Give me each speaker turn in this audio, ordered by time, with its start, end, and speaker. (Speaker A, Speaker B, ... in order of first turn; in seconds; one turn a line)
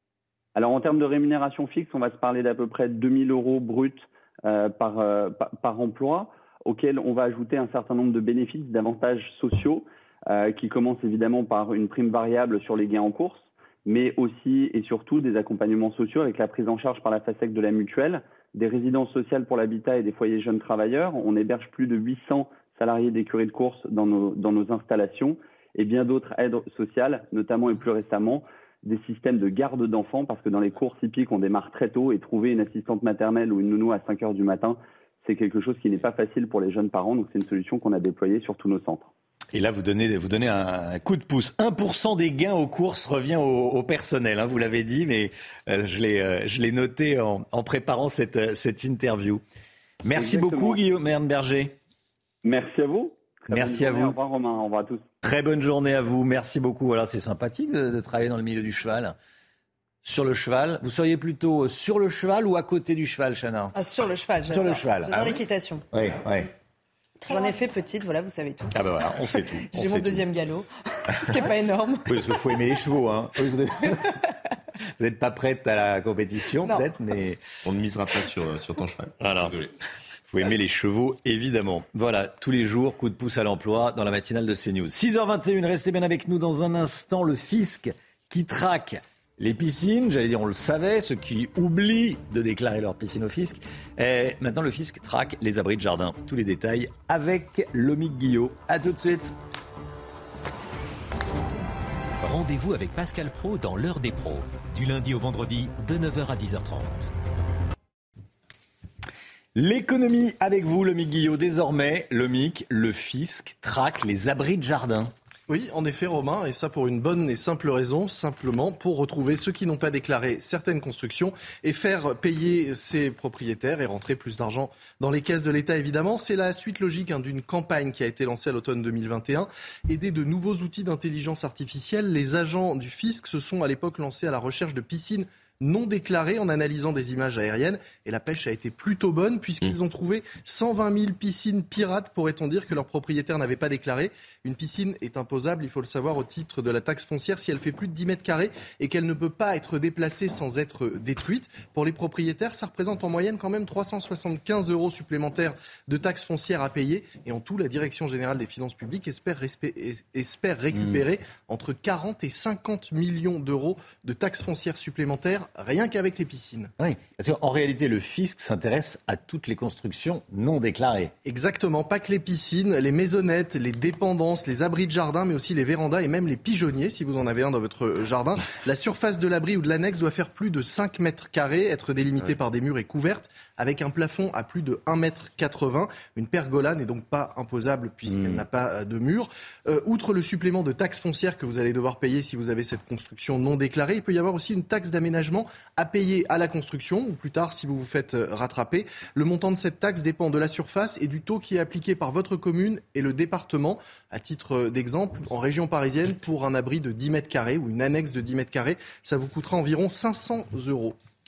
Speaker A: 0.6-39.1
Speaker B: 39.5-49.4
Speaker B: 50.0-51.8
Speaker A: 50.1-50.8
Speaker A: 52.4-55.0
Speaker B: 53.5-54.2
Speaker B: 55.2-59.2
Speaker B: 60.0-63.7
Speaker C: 63.7-65.8
Speaker B: 64.5-65.4
Speaker B: 65.9-66.5
Speaker C: 67.2-68.7
Speaker B: 68.7-70.3
Speaker C: 69.6-72.2
Speaker B: 72.1-74.2
Speaker B: 75.0-77.4
Speaker C: 76.6-76.9
Speaker D: 77.7-79.7
Speaker B: 79.2-79.6
Speaker B: 80.3-99.3
Speaker E: 102.2-107.1
Speaker B: 109.5-115.1
Speaker F: 115.5-166.7
Speaker B: 166.8-171.1
Speaker F: 171.2-211.0
Speaker B: 188.1-188.4